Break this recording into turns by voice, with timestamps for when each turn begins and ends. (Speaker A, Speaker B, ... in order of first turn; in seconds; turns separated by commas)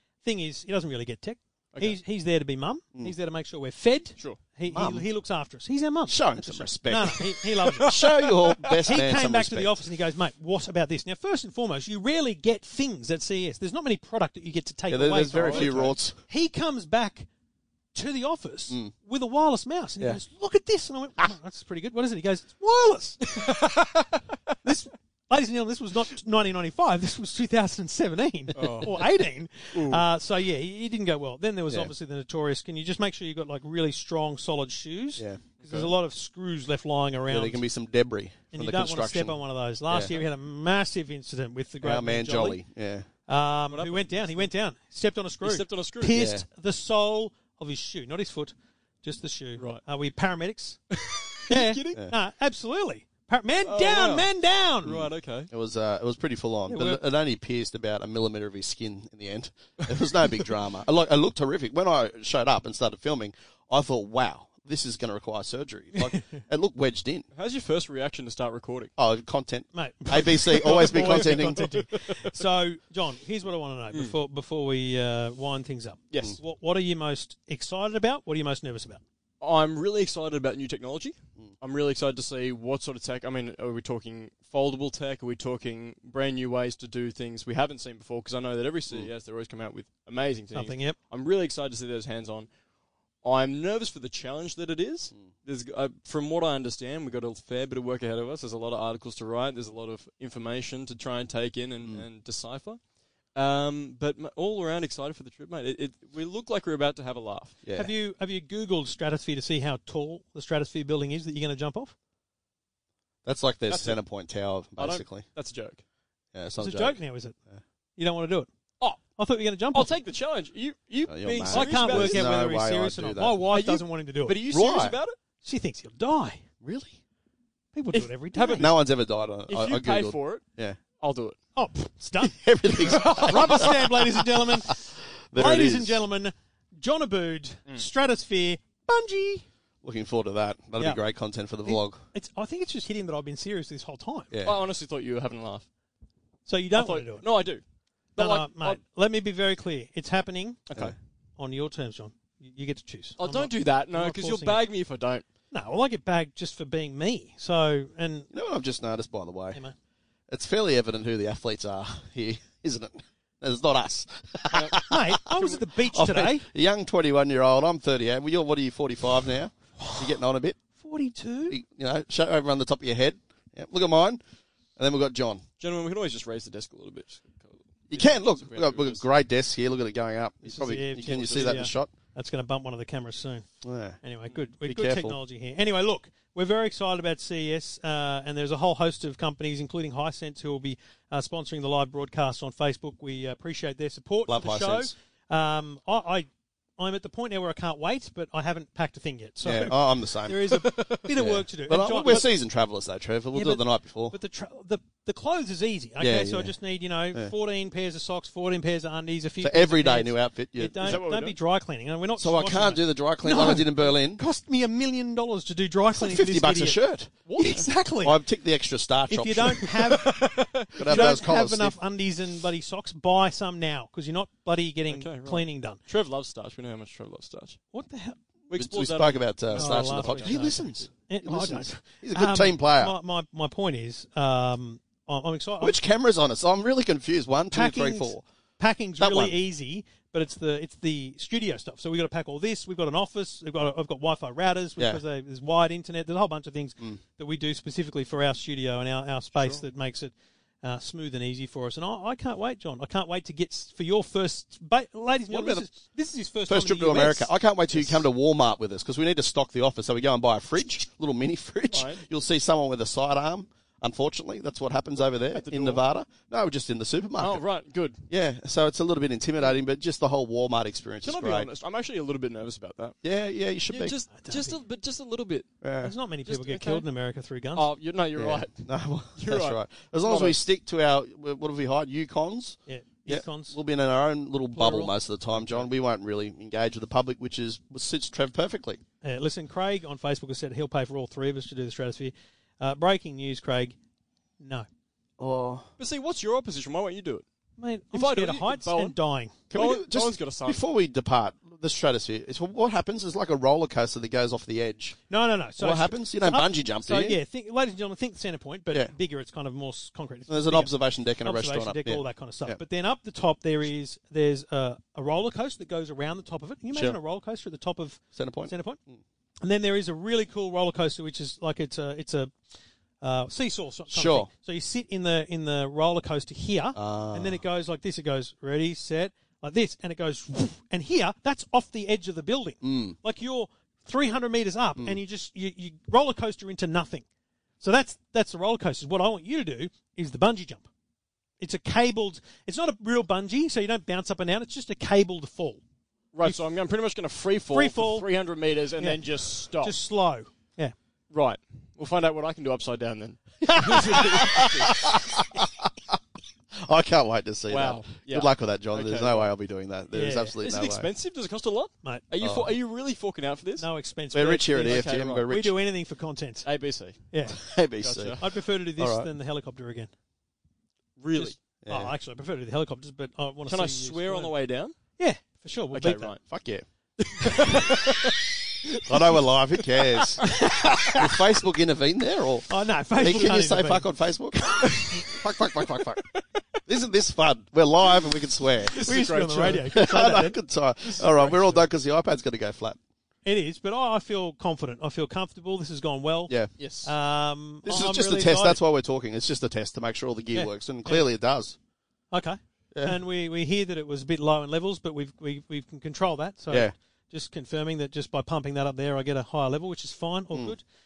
Speaker A: 0.2-7.9, Speaker B: 4.7-5.1, Speaker B: 6.1-9.8, Speaker C: 7.7-8.2, Speaker A: 8.8-17.3, Speaker B: 14.9-16.2, Speaker C: 15.3-15.7, Speaker A: 17.9-23.4, Speaker C: 23.3-24.1, Speaker A: 24.6-37.6, Speaker C: 28.6-29.2, Speaker C: 29.7-30.0, Speaker C: 35.6-35.9, Speaker B: 37.3-39.4, Speaker A: 38.5-42.6, Speaker B: 39.9-40.2, Speaker B: 41.8-43.1, Speaker A: 43.3-50.8, Speaker C: 43.7-44.5, Speaker C: 45.4-46.2, Speaker B: 46.1-46.5, Speaker C: 49.6-49.8, Speaker C: 50.9-52.0, Speaker A: 51.5-55.0, Speaker C: 53.6-54.3, Speaker C: 54.8-55.5, Speaker B: 54.9-67.3, Speaker A: 56.7-57.0, Speaker C: 67.3-68.9, Speaker B: 69.0-71.7, Speaker A: 69.7-79.0, Speaker C: 70.5-72.4, Speaker C: 76.1-76.4, Speaker C: 79.4-92.5, Speaker A: 90.5-91.0, Speaker C: 93.2-102.8, Speaker C: 103.3-107.6, Speaker B: 107.6-107.9, Speaker A: 107.7-111.9, Speaker B: 113.2-115.3, Speaker C: 113.7-114.0, Speaker C: 114.8-115.8, Speaker B: 116.3-117.0, Speaker A: 116.6-117.4, Speaker A: 118.0-118.5, Speaker A: 119.2-120.0, Speaker C: 119.7-122.3, Speaker B: 121.1-123.4, Speaker A: 121.5-124.4, Speaker C: 123.5-125.2, Speaker B: 124.5-125.0, Speaker A: 125.4-126.4, Speaker B: 126.6-127.0, Speaker A: 127.7-128.7, Speaker C: 127.9-128.8, Speaker B: 128.6-130.8, Speaker C: 129.5-130.4, Speaker C: 131.0-131.4, Speaker A: 131.6-132.4, Speaker B: 132.2-136.1, Speaker A: 132.9-139.4, Speaker C: 133.0-133.7, Speaker B: 139.8-142.0, Speaker A: 140.8-141.0, Speaker A: 141.6-144.3, Speaker B: 144.3-144.6, Speaker C: 144.4-145.7, Speaker A: 146.5-147.3, Speaker C: 146.7-147.6, Speaker C: 148.2-148.8, Speaker A: 148.2-150.6, Speaker C: 150.7-150.9, Speaker A: 151.4-154.7, Speaker C: 153.2-155.2, Speaker A: 155.5-158.3, Speaker B: 158.3-159.6, Speaker B: 160.3-170.6, Speaker A: 164.8-166.5, Speaker A: 169.8-170.1, Speaker A: 170.8-171.6, Speaker B: 171.5-174.2, Speaker B: 174.8-175.4, Speaker C: 175.6-179.1, Speaker B: 177.9-181.9, Speaker A: 180.4-183.5, Speaker B: 183.6-184.0, Speaker A: 184.0-202.3, Speaker B: 184.6-185.2, Speaker B: 194.3-194.9, Speaker B: 199.4-204.2, Speaker C: 200.6-201.0, Speaker A: 203.3-218.2, Speaker B: 206.0-206.6, Speaker B: 209.4-211.0, Speaker C: 210.8-211.4, Speaker B: 212.2-214.2, Speaker B: 215.9-219.7, Speaker C: 217.3-217.7, Speaker A: 219.1-220.2, Speaker C: 219.7-221.3, Speaker B: 220.8-221.8, Speaker A: 220.8-225.8, Speaker C: 224.9-227.6, Speaker A: 227.7-228.2, Speaker C: 228.5-230.8, Speaker B: 228.5-232.9, Speaker A: 229.6-235.8, Speaker B: 235.6-238.2, Speaker A: 237.5-258.0, Speaker B: 239.0-239.4, Speaker C: 249.3-249.6, Speaker B: 255.3-255.7, Speaker B: 256.5-267.4, Speaker C: 261.7-262.0, Speaker C: 265.0-265.8, Speaker C: 267.2-268.0, Speaker B: 268.1-271.5, Speaker C: 271.0-272.9, Speaker B: 273.0-274.0, Speaker C: 273.7-275.5, Speaker A: 274.1-274.6, Speaker B: 275.6-275.9, Speaker A: 275.8-277.7, Speaker C: 276.3-276.9, Speaker C: 277.6-278.6, Speaker B: 278.2-288.8, Speaker C: 279.2-280.4, Speaker A: 282.7-283.6, Speaker A: 284.6-284.9, Speaker C: 285.4-285.6, Speaker A: 289.0-293.8, Speaker A: 294.4-294.7, Speaker B: 295.2-295.7, Speaker C: 295.8-297.2, Speaker A: 297.6-299.3, Speaker C: 297.9-298.9, Speaker B: 299.5-305.0, Speaker C: 299.5-300.6, Speaker A: 305.1-318.8, Speaker B: 305.6-307.2, Speaker B: 310.3-312.6, Speaker B: 318.1-319.0, Speaker A: 319.4-322.3, Speaker A: 323.0-337.1, Speaker B: 323.9-324.3, Speaker B: 326.8-327.4, Speaker B: 332.6-332.9, Speaker A: 337.6-340.7, Speaker A: 341.4-345.6, Speaker C: 346.1-349.8, Speaker A: 347.5-348.1, Speaker A: 349.6-350.8, Speaker C: 351.1-354.9, Speaker B: 353.5-355.9, Speaker B: 356.6-360.9, Speaker C: 357.5-359.3, Speaker A: 359.9-360.4, Speaker C: 360.4-363.7, Speaker B: 362.2-362.6, Speaker A: 363.6-366.5, Speaker B: 364.1-365.6, Speaker C: 364.6-365.3, Speaker C: 366.4-368.2, Speaker A: 367.1-367.5, Speaker B: 367.3-368.2, Speaker A: 368.2-369.9, Speaker B: 368.8-369.1, Speaker C: 371.0-371.4, Speaker A: 371.1-374.3, Speaker B: 371.6-371.9, Speaker C: 373.5-374.8, Speaker A: 375.0-376.2, Speaker C: 375.7-376.2, Speaker B: 376.3-376.6, Speaker C: 377.0-379.0, Speaker B: 378.9-386.0, Speaker A: 380.2-381.1, Speaker A: 382.5-383.9, Speaker A: 384.5-385.0, Speaker B: 386.7-388.9, Speaker C: 388.7-389.7, Speaker A: 388.7-390.4, Speaker B: 389.7-392.8, Speaker C: 390.9-391.7, Speaker A: 393.2-398.6, Speaker C: 396.6-396.9, Speaker B: 397.6-401.6, Speaker A: 400.3-401.1, Speaker A: 402.1-410.6, Speaker B: 402.7-403.0